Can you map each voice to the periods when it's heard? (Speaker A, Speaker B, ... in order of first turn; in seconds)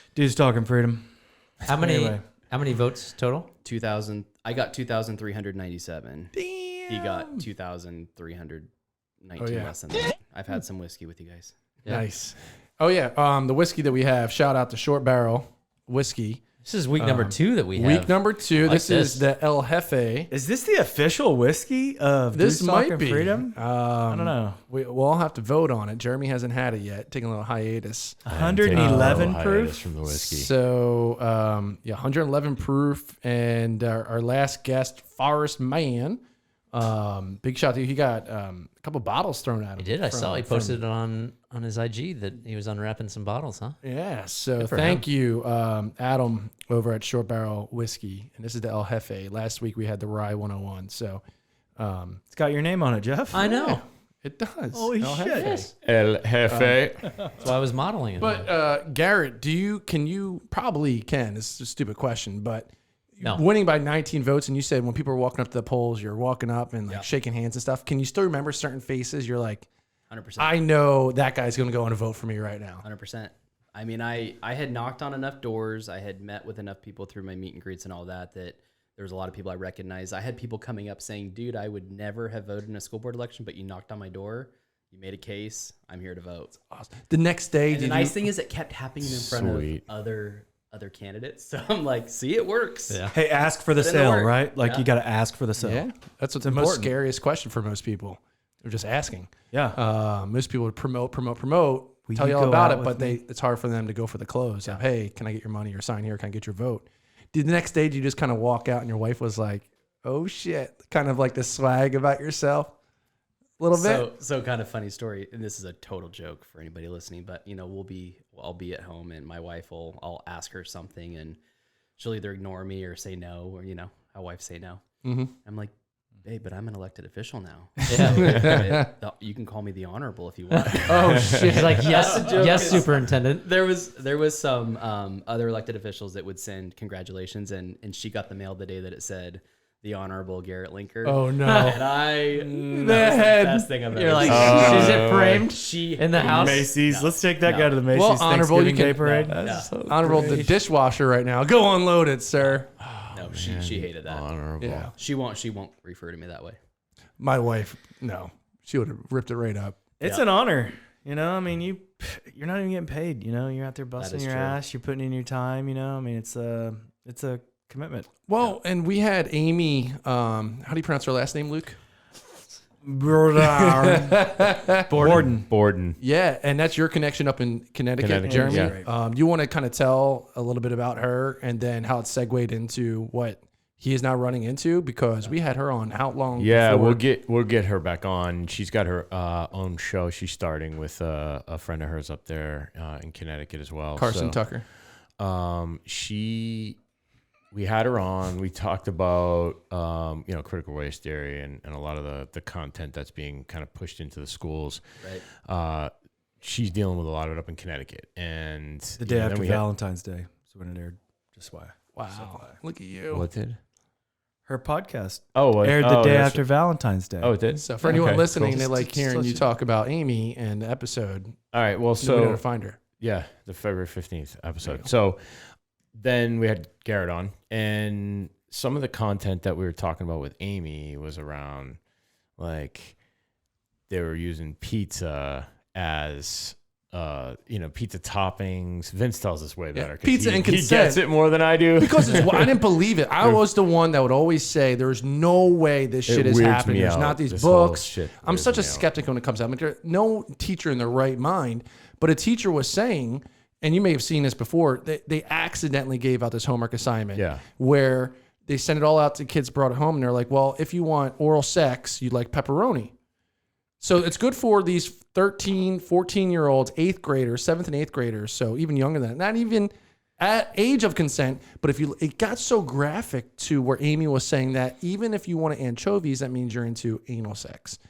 Speaker A: 0.1-1.1, 1.6-2.2, 20.3-24.6, 28.2-29.9, 52.3-53.5, 54.7-55.6, 93.1-95.9, 96.4-96.9, 99.5-99.8, 102.1-103.2, 146.2-149.4, 150.1-150.5, 160.0-168.1, 172.8-175.5, 178.2-178.9, 209.0-212.6, 214.5-219.4
Speaker B: 1.6-3.5, 16.6-19.3, 39.8-43.8, 44.6-45.0, 53.3-53.8, 55.3-55.7, 57.4-58.5, 92.9-93.2, 127.9-128.3, 131.4-133.5, 141.4-141.8, 143.9-146.7, 149.5-149.9
Speaker C: 3.6-6.3, 6.9-8.7, 9.2-11.5, 70.1-70.5, 72.8-86.5, 87.7-93.1, 93.8-94.9, 113.7-121.4, 122.0-124.8, 125.4-125.7, 126.2-147.8, 149.0-149.7, 153.1-154.2, 154.9-156.6, 164.0-164.6
Speaker D: 6.3-7.5, 9.4-9.7, 11.9-16.4, 17.0-20.3, 22.3-28.2, 28.7-29.3, 30.1-36.2, 36.7-40.8, 43.8-51.2, 51.8-52.2, 53.4-55.7, 56.5-56.8, 58.2-69.7, 70.4-72.8, 86.7-88.2, 95.6-112.8, 113.6-114.1, 125.0-125.3, 128.2-128.9, 130.9-132.3, 141.0-143.7, 147.9-149.3, 149.9-152.7, 154.6-154.9, 157.2-159.8, 168.3-171.8, 173.4-175.3, 176.0-187.0, 193.9-194.7, 211.9-213.3, 217.5-221.3, 222.0-222.8, 239.8-241.1, 241.8-262.9, 263.8-277.8
Speaker E: 28.3-30.5, 55.8-57.1, 89.0-89.8, 131.0-131.8, 144.2-145.5, 149.3-150.1, 152.8-154.9, 175.0-176.0, 178.0-178.8, 186.4-194.5, 195.2-196.8, 197.5-209.7, 213.1-213.6, 215.3-216.5, 217.2-218.7, 221.5-222.4, 223.0-231.8, 232.4-233.0, 233.9-242.7, 246.1-248.9, 257.1-257.4